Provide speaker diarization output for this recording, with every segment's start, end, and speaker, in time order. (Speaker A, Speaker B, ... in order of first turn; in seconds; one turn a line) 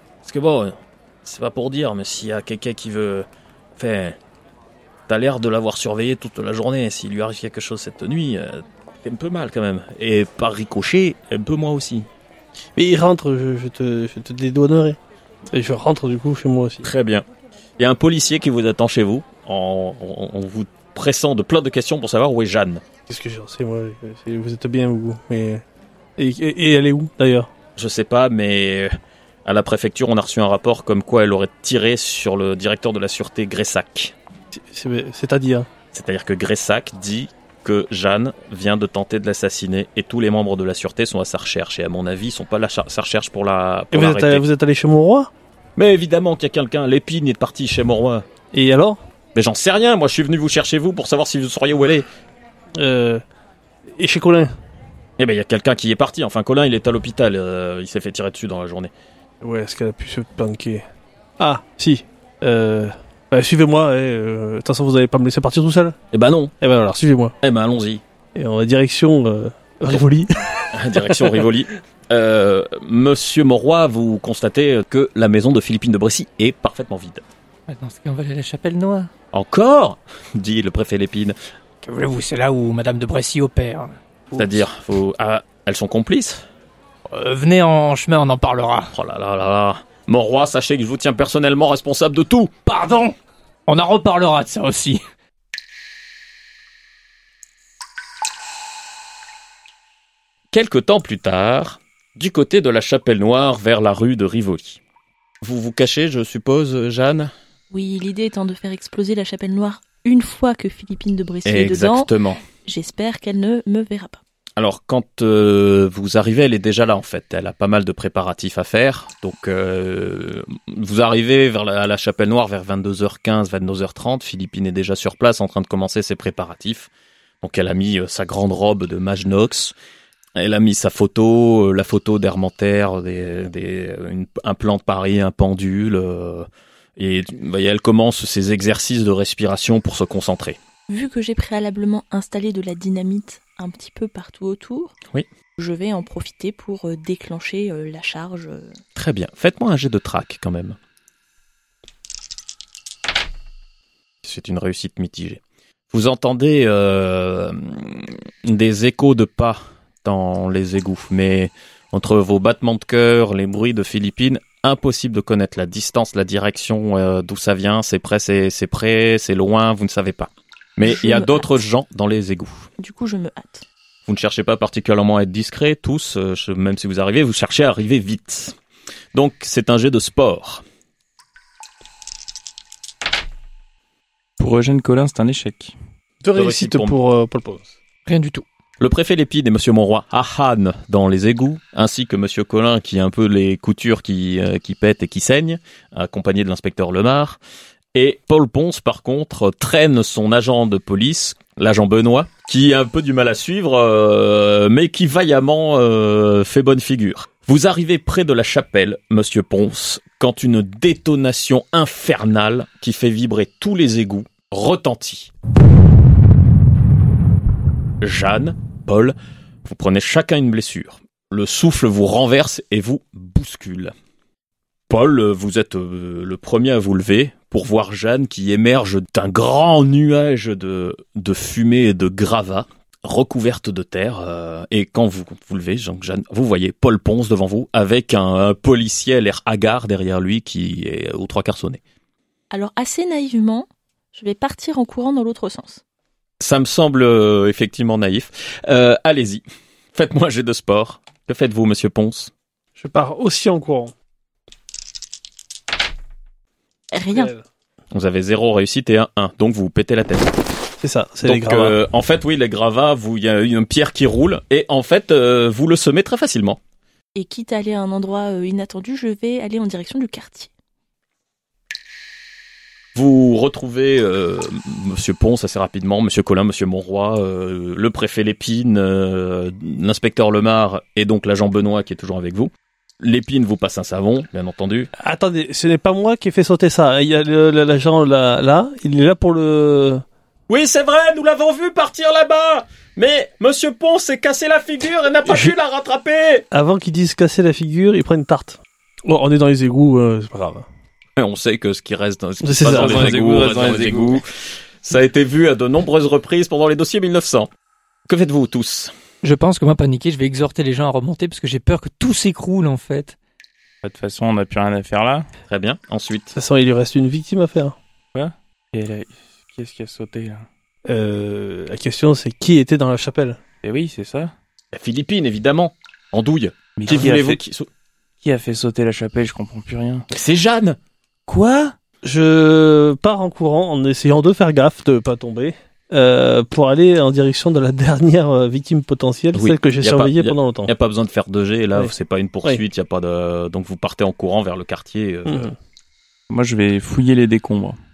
Speaker A: 0.2-4.2
Speaker A: 5.1-12.1
Speaker B: 12.8-15.0
Speaker B: 15.5-16.9
Speaker A: 16.8-17.2
Speaker A: 17.8-22.8
Speaker B: 23.1-25.6
Speaker B: 26.2-27.5
Speaker A: 27.8-28.9
Speaker A: 29.4-34.1
Speaker B: 34.5-35.7
Speaker A: 35.9-44.4
Speaker B: 43.9-45.3
Speaker A: 45.8-48.2
Speaker B: 48.5-49.0
Speaker A: 49.3-52.1
Speaker B: 52.8-53.2
Speaker B: 53.9-54.5
Speaker A: 55.2-58.9
Speaker B: 59.4-60.8
Speaker B: 61.4-66.0
Speaker A: 66.1-66.5
Speaker B: 66.6-67.3
Speaker A: 67.4-68.0
Speaker B: 68.3-71.3
Speaker A: 70.7-77.2
Speaker C: 77.7-79.1
Speaker A: 79.3-81.3
Speaker C: 81.8-84.6
Speaker A: 84.3-86.4
Speaker C: 87.1-88.9
Speaker A: 88.9-92.5
Speaker C: 92.7-95.0
Speaker A: 100.5-104.8
Speaker A: 105.4-107.3
Speaker D: 107.7-112.1
Speaker A: 111.5-112.4
Speaker D: 112.6-114.2
Speaker A: 114.6-126.9
Speaker A: 127.4-129.7
Speaker A: 130.4-140.6
Speaker D: 140.9-144.9
Speaker D: 145.6-148.8
Speaker A: 148.9-150.8
Speaker A: 154.2-172.7
Speaker D: 170.8-171.5
Speaker D: 172.8-173.6
Speaker A: 174.1-178.6
Speaker A: 179.1-180.6
Speaker E: 184.4-185.7
Speaker B: 186.2-187.7
Speaker A: 186.3-186.9
Speaker C: 188.1-188.4
Speaker A: 188.8-197.4
Speaker A: 197.9-215.3
Speaker A: 218.0-223.9
Speaker A: 224.9-241.8
Speaker D: 242.5-245.8
Speaker A: 246.4-249.4
Speaker A: 249.9-252.3
Speaker B: 252.8-253.9
Speaker D: 256.9-257.3
Speaker B: 257.1-257.4
Speaker A: 257.9-260.3
Speaker B: 260.8-261.8
Speaker A: 261.2-266.6
Speaker D: 267.1-270.5
Speaker A: 272.9-284.9
Speaker B: 285.0-290.0
Speaker A: 290.5-296.4
Speaker B: 295.2-295.5
Speaker B: 296.5-300.6
Speaker A: 301.2-307.5
Speaker B: 302.4-303.2
Speaker E: 302.6-304.2
Speaker A: 308.1-308.9
Speaker C: 309.2-313.2
Speaker E: 313.8-315.2
Speaker A: 315.5-316.3
Speaker B: 316.3-317.8
Speaker E: 318.1-320.5
Speaker B: 320.9-323.4
Speaker E: 323.6-324.3
Speaker A: 324.7-327.7
Speaker E: 326.8-327.4
Speaker E: 328.2-330.1
Speaker A: 330.1-330.8
Speaker E: 331.3-331.7
Speaker B: 332.0-340.7
Speaker A: 339.3-345.5
Speaker B: 345.2-345.6
Speaker E: 346.3-347.8